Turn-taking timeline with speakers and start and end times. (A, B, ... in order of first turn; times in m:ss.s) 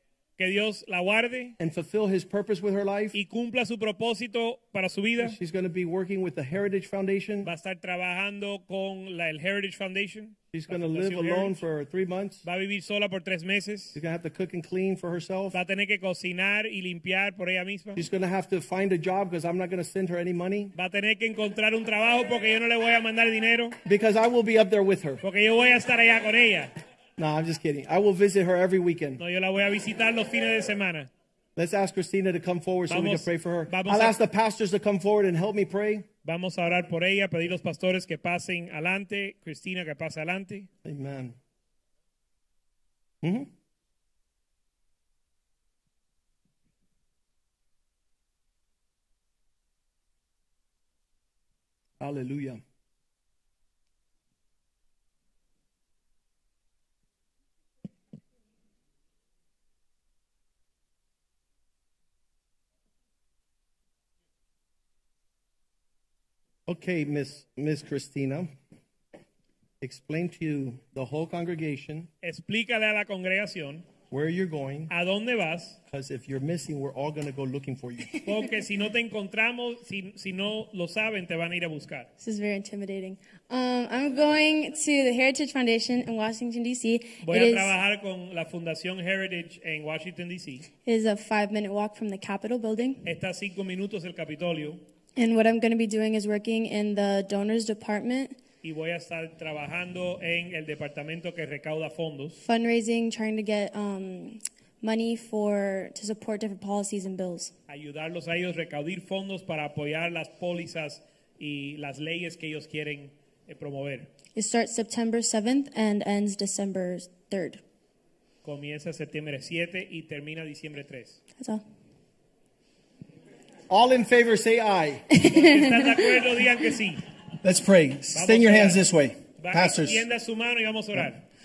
0:00.4-0:01.6 A
0:01.6-0:03.2 B
0:03.1-0:05.4 A
0:05.2-0:07.5 B
0:07.4-0:11.6 A
0:10.5-0:12.4 B
0:12.4-0:14.0 A
0:14.0-0:15.6 B
0:15.5-0:18.0 A
0:18.0-0:20.7 B
0:20.8-0:23.8 A
0:23.8-0:25.2 B
0:25.2-0:26.7 A
0:27.2-0:29.2 B
0:29.2-0:31.1 A
0:31.6-0:36.1 B
0:32.9-0:34.2 A
0:36.2-0:40.7 A
0:40.8-0:41.4 B
0:43.2-0:43.5 B
0:52.0-0:52.6 B
1:06.7-1:08.5 B
1:09.8-1:12.1 B
1:12.2-1:13.9 A
1:14.1-1:14.9 B
1:14.9-1:15.8 A
1:15.9-1:18.2 B
1:18.2-1:22.1 A
1:22.2-1:27.8 C
1:27.2-1:30.7 A
1:30.9-1:33.1 C
1:33.0-1:34.8 A
1:35.2-1:38.4 C
1:38.6-1:42.4 A
1:42.4-1:47.5 C
1:47.7-1:54.1 A
1:54.4-1:57.6 C
1:58.4-2:01.2 A
2:01.4-2:01.6 C
2:03.7-2:05.1 B
2:05.1-2:06.2 C
2:05.2-2:07.0 A
2:07.4-2:10.1 B
2:08.1-2:08.8 A
2:09.4-2:11.2 A